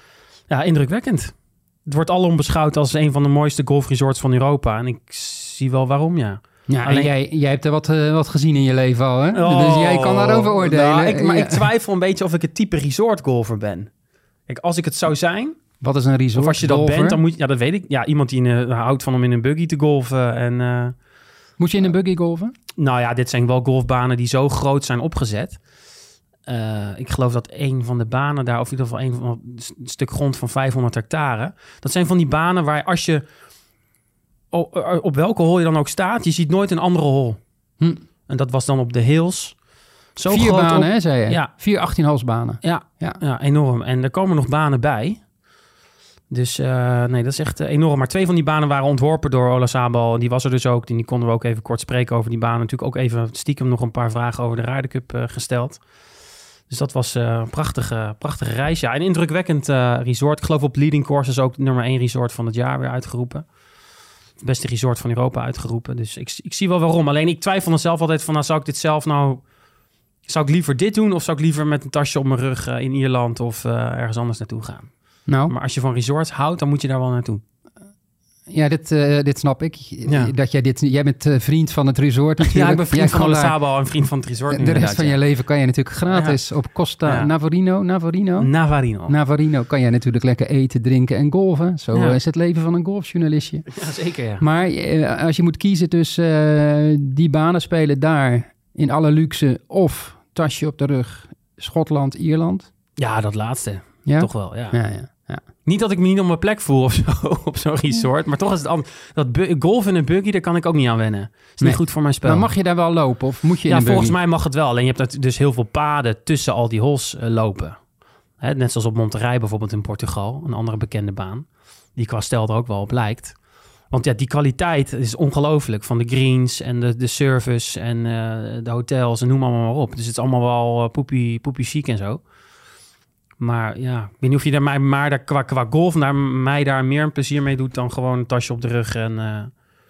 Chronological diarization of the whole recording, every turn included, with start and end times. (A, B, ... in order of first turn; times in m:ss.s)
0:00.5-0:07.1 A
0:06.7-0:11.6 B
0:09.3-0:13.9 A
0:14.4-0:15.6 A
0:15.8-0:17.2 B
0:16.3-0:21.0 A
0:21.6-0:22.5 B
0:22.8-0:25.6 A
0:26.4-0:33.2 A
0:34.5-0:37.4 A
0:38.3-0:41.5 A
0:40.3-0:43.2 B
0:42.6-0:45.3 A
0:46.3-0:56.0 A
0:56.7-1:03.6 A
1:04.4-1:09.5 A
1:10.2-1:17.4 A
1:15.2-1:15.5 B
1:18.5-1:23.8 B
1:20.0-1:20.3 A
1:22.4-1:25.2 A
1:24.5-1:33.7 B
1:26.1-1:26.4 A
1:28.4-1:29.1 A
1:33.7-1:34.4 A
1:34.4-1:42.7 B
1:43.0-1:44.8 A
1:44.0-1:45.4 B
1:45.6-1:52.5 A
1:51.6-1:54.2 B
1:53.7-2:12.3 A
2:13.4-2:19.6 A